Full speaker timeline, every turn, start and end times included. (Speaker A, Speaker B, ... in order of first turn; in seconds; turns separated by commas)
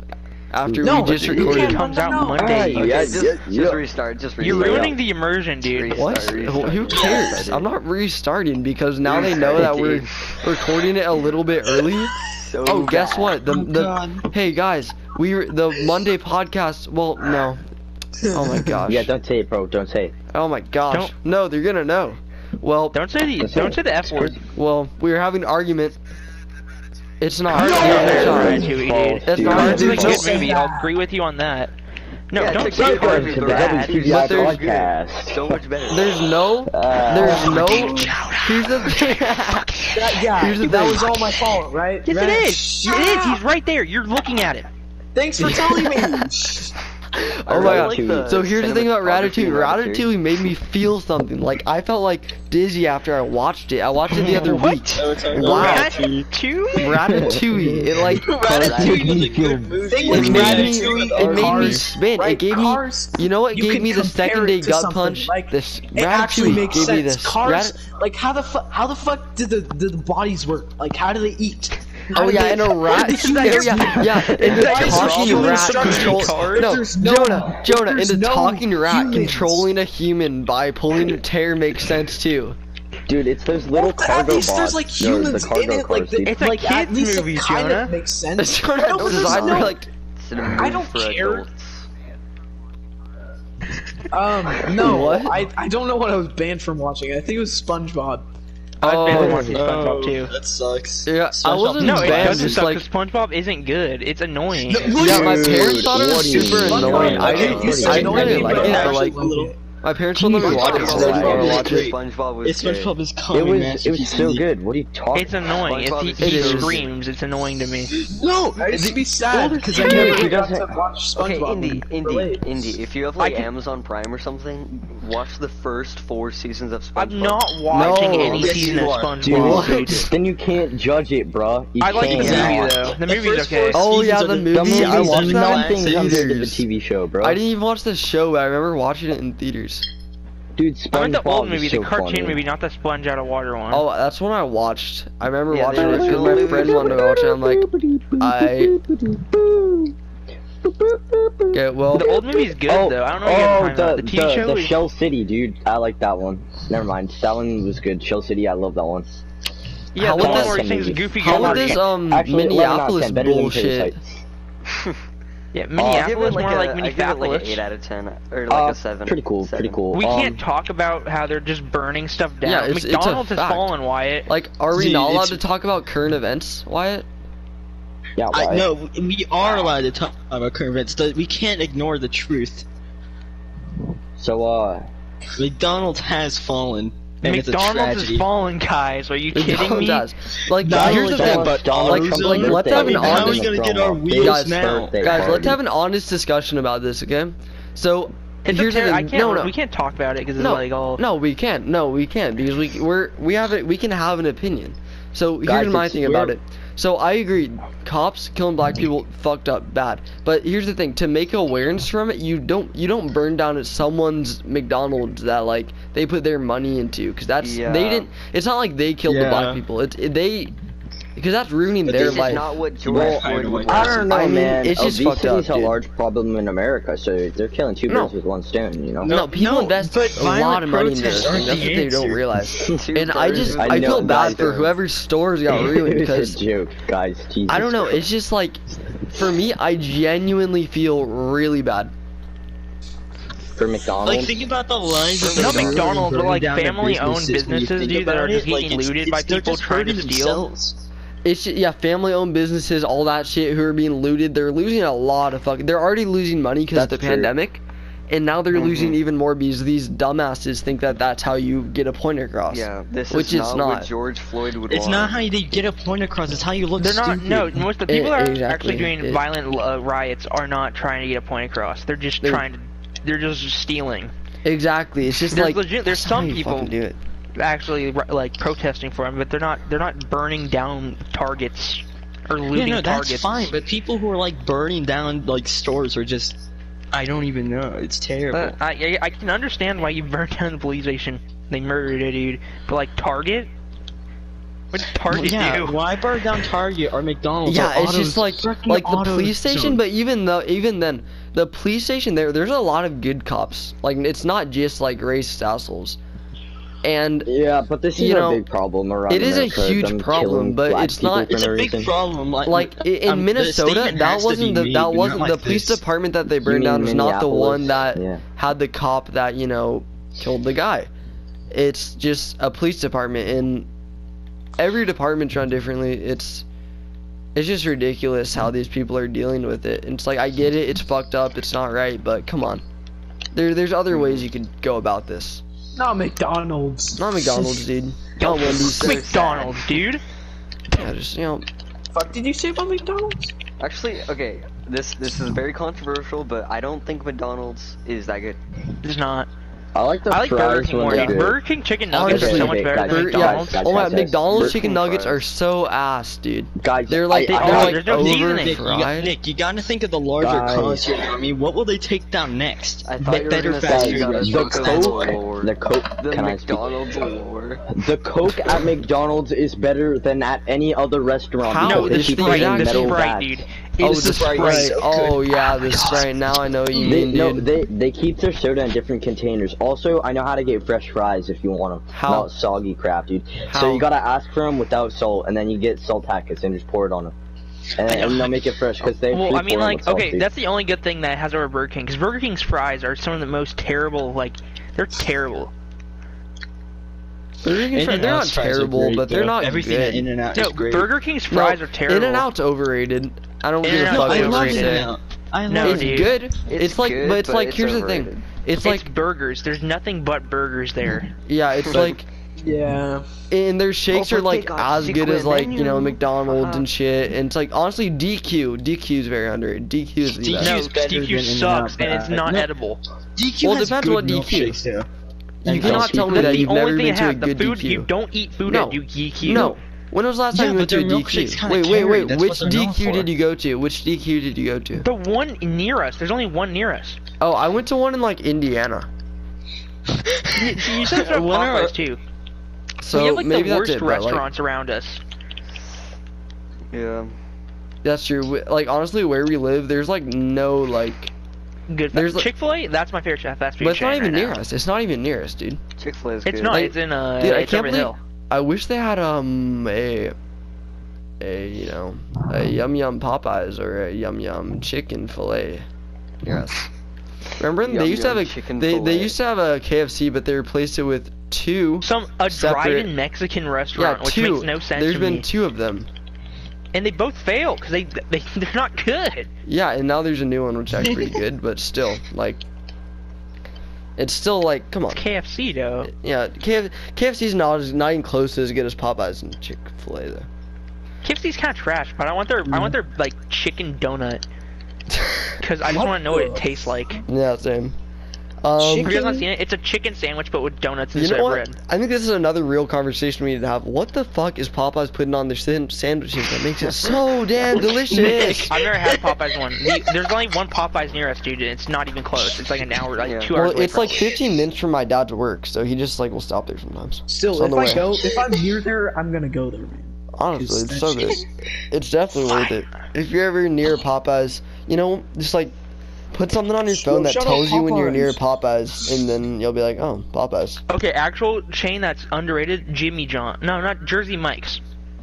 Speaker A: 0.5-1.8, Speaker B: 0.7-1.6, Speaker C: 0.8-3.0, Speaker D: 1.4-3.2, Speaker B: 2.4-3.8, Speaker E: 2.5-5.0, Speaker D: 4.4-6.1, Speaker E: 5.6-7.7, Speaker A: 5.9-17.6, Speaker F: 6.9-7.3, Speaker E: 9.1-10.3, Speaker E: 12.2-13.4, Speaker F: 13.4-14.3, Speaker A: 18.3-19.1, Speaker B: 18.8-20.1, Speaker A: 20.3-23.0, Speaker D: 22.9-24.4, Speaker B: 23.4-24.4, Speaker A: 24.5-26.0, Speaker A: 27.2-28.7, Speaker D: 27.5-31.7, Speaker C: 27.6-28.5, Speaker B: 27.6-30.2, Speaker A: 29.2-30.4, Speaker C: 29.5-30.9, Speaker D: 32.3-34.0, Speaker E: 32.4-36.2, Speaker B: 32.5-35.4, Speaker A: 33.9-34.6, Speaker A: 35.9-41.2, Speaker B: 36.6-37.7, Speaker D: 37.3-40.1, Speaker C: 39.9-43.4, Speaker D: 42.0-44.7, Speaker C: 45.1-46.7, Speaker A: 45.4-46.3, Speaker A: 47.1-56.0, Speaker E: 47.5-50.1, Speaker B: 47.5-48.4, Speaker D: 54.1-57.0, Speaker F: 54.1-61.9, Speaker A: 56.8-58.4, Speaker B: 58.3-60.7, Speaker E: 58.6-59.5, Speaker C: 59.9-79.7, Speaker A: 60.1-67.8, Speaker A: 72.1-82.6, Speaker D: 73.3-76.8, Speaker B: 83.1-86.4, Speaker C: 83.7-89.8, Speaker D: 86.2-87.9, Speaker A: 88.4-89.9, Speaker E: 90.2-91.9, Speaker C: 90.5-91.5, Speaker C: 94.1-98.2, Speaker A: 94.7-95.4, Speaker A: 98.8-99.6, Speaker D: 98.8-100.3, Speaker F: 99.1-102.7, Speaker B: 99.1-99.5, Speaker A: 101.0-102.8, Speaker D: 101.8-105.0, Speaker F: 104.7-105.9, Speaker B: 104.8-108.8, Speaker A: 105.0-109.2, Speaker C: 106.3-109.6, Speaker F: 106.8-109.5, Speaker A: 109.8-111.9, Speaker F: 110.1-114.5, Speaker E: 110.4-113.0, Speaker C: 110.4-111.1, Speaker B: 110.5-111.6, Speaker B: 113.3-115.5, Speaker D: 115.1-117.9, Speaker E: 115.6-116.9, Speaker A: 116.2-116.8, Speaker F: 117.9-120.3, Speaker C: 118.6-122.4, Speaker B: 119.7-120.7, Speaker E: 121.2-127.9, Speaker D: 123.2-123.5, Speaker D: 127.0-130.1, Speaker A: 127.7-130.1, Speaker F: 127.8-130.0, Speaker B: 129.3-132.7, Speaker D: 131.8-133.8, Speaker F: 131.9-136.2, Speaker A: 133.7-136.6, Speaker B: 134.5-137.4, Speaker A: 137.2-139.8, Speaker B: 140.6-142.4, Speaker D: 140.9-143.8, Speaker A: 143.7-147.6, Speaker E: 145.5-147.1, Speaker B: 145.7-149.9, Speaker A: 148.2-148.7, Speaker B: 150.6-159.2, Speaker A: 151.5-152.1, Speaker D: 151.9-154.8, Speaker D: 159.9-161.8, Speaker A: 159.9-160.6, Speaker B: 160.2-164.1, Speaker A: 161.2-163.9, Speaker E: 164.7-164.9, Speaker D: 165.5-167.6, Speaker E: 165.8-169.8, Speaker B: 168.5-170.4, Speaker D: 169.9-174.3, Speaker A: 172.4-173.7, Speaker A: 174.3-177.1, Speaker F: 174.7-175.4, Speaker B: 178.2-178.7, Speaker F: 178.3-182.7, Speaker B: 184.2-184.9, Speaker F: 185.4-188.3, Speaker D: 187.2-190.1, Speaker A: 189.3-193.5, Speaker F: 190.6-195.3, Speaker B: 190.7-195.6, Speaker A: 194.2-199.5, Speaker D: 198.4-201.0, Speaker A: 200.4-220.5, Speaker B: 205.4-206.3, Speaker E: 217.4-218.1, Speaker F: 219.1-219.6, Speaker A: 221.2-222.5, Speaker B: 221.9-229.2, Speaker E: 221.9-224.1, Speaker F: 222.8-224.1, Speaker A: 224.1-225.8, Speaker A: 227.9-228.1, Speaker F: 229.0-232.2, Speaker A: 229.0-236.4, Speaker E: 232.7-234.7, Speaker B: 233.5-234.7, Speaker B: 235.5-238.1, Speaker A: 237.5-238.6, Speaker A: 239.1-241.9, Speaker B: 243.5-244.4, Speaker F: 244.0-250.8, Speaker E: 245.1-245.9, Speaker D: 245.3-250.4, Speaker A: 251.2-263.9, Speaker B: 256.7-257.3, Speaker E: 258.5-259.0, Speaker E: 262.5-265.3, Speaker F: 264.7-267.6, Speaker D: 266.8-274.1, Speaker A: 267.9-269.2, Speaker A: 274.4-277.0, Speaker D: 275.3-276.7, Speaker D: 277.3-283.4, Speaker F: 282.5-288.6, Speaker D: 288.3-293.5, Speaker D: 294.7-295.8, Speaker F: 295.1-299.8, Speaker A: 297.4-306.0, Speaker A: 306.8-307.3, Speaker B: 307.2-311.9, Speaker A: 307.9-308.4, Speaker A: 309.1-311.4, Speaker F: 311.3-315.8, Speaker A: 312.4-320.9, Speaker B: 316.4-318.2, Speaker A: 321.5-323.7, Speaker A: 324.6-326.4, Speaker A: 327.3-332.6, Speaker A: 333.3-335.4, Speaker E: 333.9-334.2, Speaker C: 335.8-337.6, Speaker A: 337.0-339.1, Speaker D: 338.2-340.0, Speaker E: 338.3-339.6, Speaker A: 340.7-341.5, Speaker C: 341.9-343.3, Speaker E: 343.6-348.4, Speaker D: 348.8-349.3, Speaker B: 349.7-351.4, Speaker D: 350.1-353.6, Speaker A: 350.9-351.2, Speaker A: 351.9-359.1, Speaker B: 352.0-354.6, Speaker E: 354.3-355.2, Speaker B: 356.6-357.7, Speaker D: 357.3-358.6, Speaker F: 357.3-365.2, Speaker B: 360.2-360.9, Speaker E: 362.9-367.7, Speaker B: 363.6-366.7, Speaker B: 367.7-373.4, Speaker A: 371.4-373.0, Speaker D: 371.6-374.8, Speaker F: 373.8-376.0, Speaker A: 373.8-377.5, Speaker B: 376.8-387.1, Speaker A: 381.9-382.3, Speaker A: 383.5-383.9, Speaker B: 387.8-390.3, Speaker D: 387.9-388.4, Speaker D: 389.1-395.5, Speaker A: 397.4-400.1, Speaker F: 397.7-400.9, Speaker D: 400.3-402.3, Speaker A: 401.3-404.9, Speaker D: 403.6-404.9, Speaker F: 403.6-406.1, Speaker D: 405.5-406.1, Speaker A: 405.6-408.9, Speaker E: 406.4-408.2, Speaker D: 408.6-411.1, Speaker A: 411.3-412.1, Speaker E: 411.7-411.9, Speaker C: 412.4-413.1, Speaker A: 413.3-420.6, Speaker E: 413.9-416.6, Speaker F: 420.2-422.5, Speaker D: 420.4-422.8, Speaker F: 423.1-424.9, Speaker A: 423.4-424.6, Speaker F: 425.4-426.3, Speaker A: 425.4-427.9, Speaker B: 425.5-426.4, Speaker D: 425.6-429.6, Speaker A: 428.5-434.9, Speaker F: 430.3-433.1, Speaker D: 434.8-437.0, Speaker A: 437.2-438.9, Speaker F: 440.0-441.7, Speaker D: 440.3-442.0, Speaker A: 442.8-444.2, Speaker D: 442.9-445.0, Speaker E: 446.7-447.1, Speaker A: 447.8-451.1, Speaker D: 451.7-454.4, Speaker A: 451.9-452.3, Speaker A: 453.6-455.6, Speaker E: 455.8-456.7, Speaker D: 456.2-458.0, Speaker A: 456.5-460.1, Speaker A: 461.2-465.6, Speaker A: 466.2-466.6, Speaker A: 467.4-472.9, Speaker E: 467.6-469.1, Speaker D: 471.8-475.3, Speaker A: 473.7-475.9, Speaker D: 476.7-479.3, Speaker A: 479.4-482.4, Speaker A: 484.0-485.0, Speaker D: 484.9-485.9, Speaker A: 485.8-490.3, Speaker D: 491.0-494.2, Speaker A: 494.9-495.3, Speaker D: 495.4-497.0, Speaker C: 495.6-496.7, Speaker A: 497.1-497.8, Speaker A: 498.4-499.1, Speaker C: 498.6-499.2, Speaker D: 498.8-501.6, Speaker A: 500.9-508.5, Speaker F: 507.5-509.1, Speaker D: 508.5-514.1, Speaker E: 513.0-513.3, Speaker A: 513.3-517.9, Speaker C: 517.1-521.2, Speaker A: 520.1-525.5, Speaker A: 526.1-530.6, Speaker C: 526.7-528.2, Speaker D: 530.7-534.6